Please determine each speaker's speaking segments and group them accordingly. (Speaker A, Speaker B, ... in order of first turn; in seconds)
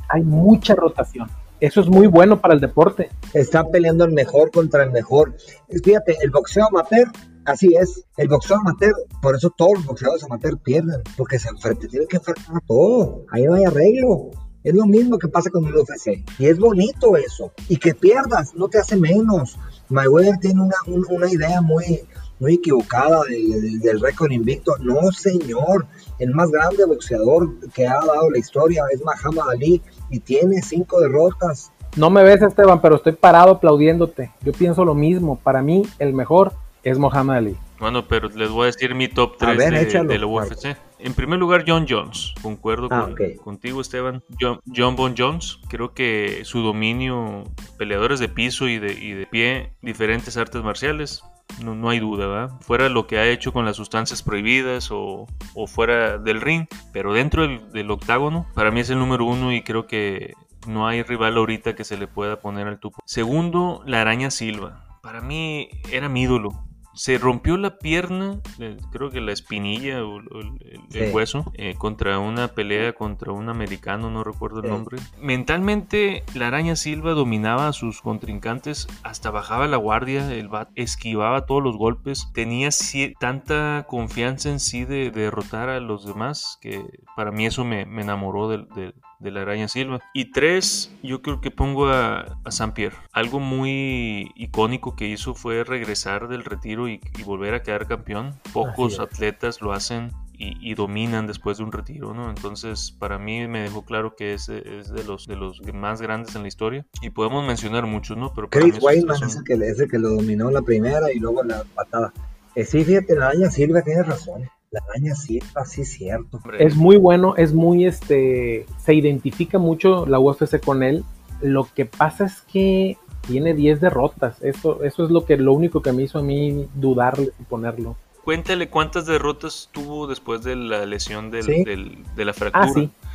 Speaker A: 0.1-3.1, 31.9-37.6, 116.6-128.0, 132.5-132.9
Speaker B: 3.3-31.7, 39.4-40.6, 42.9-43.4, 70.9-71.2, 98.6-99.0, 108.5-116.4, 131.4-131.7
Speaker C: 37.8-109.4, 116.5-116.8, 128.2-132.9